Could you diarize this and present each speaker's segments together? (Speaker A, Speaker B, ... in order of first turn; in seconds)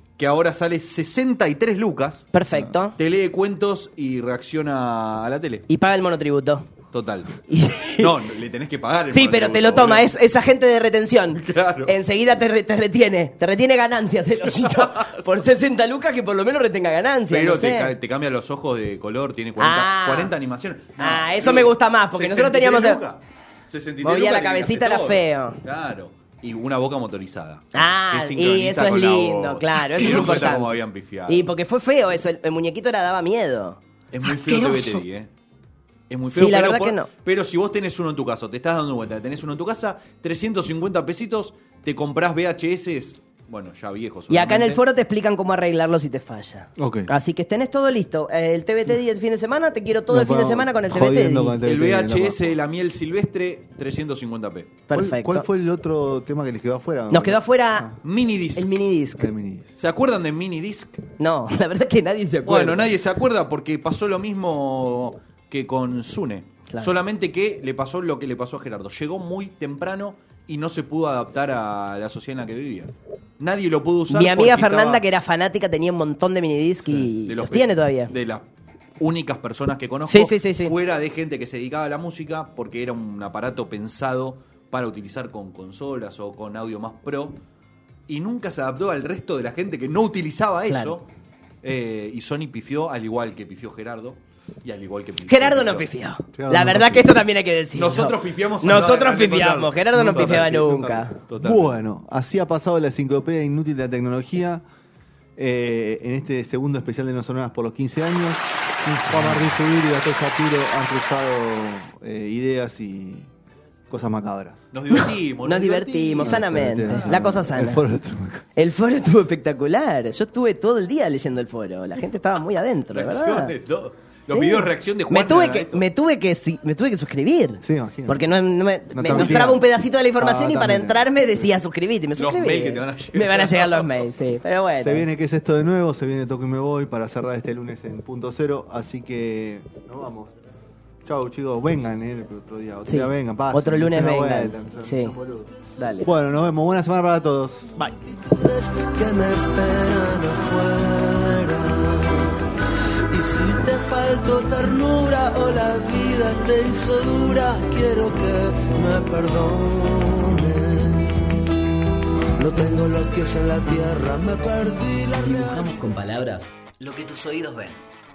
Speaker A: 0.2-2.3, 3.0-5.7, 6.9-7.4, 8.0-10.1, 11.4-11.9, 14.6-14.9, 17.3-31.5, 34.1-35.3, 36.1-44.8, 51.6-54.8, 58.0-58.8, 59.8-61.0, 62.5-75.0, 76.9-78.5, 79.0-87.4, 88.1-91.1, 91.6-95.9, 97.7-101.8, 114.7-117.2, 122.9-125.8, 129.1-129.5, 132.2-134.1
Speaker B: 2.3-3.0, 5.7-6.7, 7.5-8.1, 9.1-17.9, 19.6-20.3, 21.0-23.0, 24.0-25.6, 27.7-30.7, 31.3-33.8, 36.3-37.1, 44.3-51.6, 54.9-55.5, 57.1-58.0, 58.6-59.3, 61.2-62.9, 74.1-78.1, 80.1-80.7, 90.7-91.0, 95.3-101.2, 114.9-117.8, 118.6-123.5, 124.3-135.1, 142.8-145.2, 145.8-146.1
Speaker C: 46.8-47.1, 50.1-52.6, 54.9-58.0, 59.2-59.7, 96.3-97.2, 101.4-104.6, 105.4-113.3, 113.9-114.7, 116.2-118.4, 127.6-128.3, 128.9-131.5, 134.8-140.3, 141.0-147.7
Speaker D: 148.1-152.5, 153.1-161.4, 162.4-165.9
Speaker E: 165.2-167.8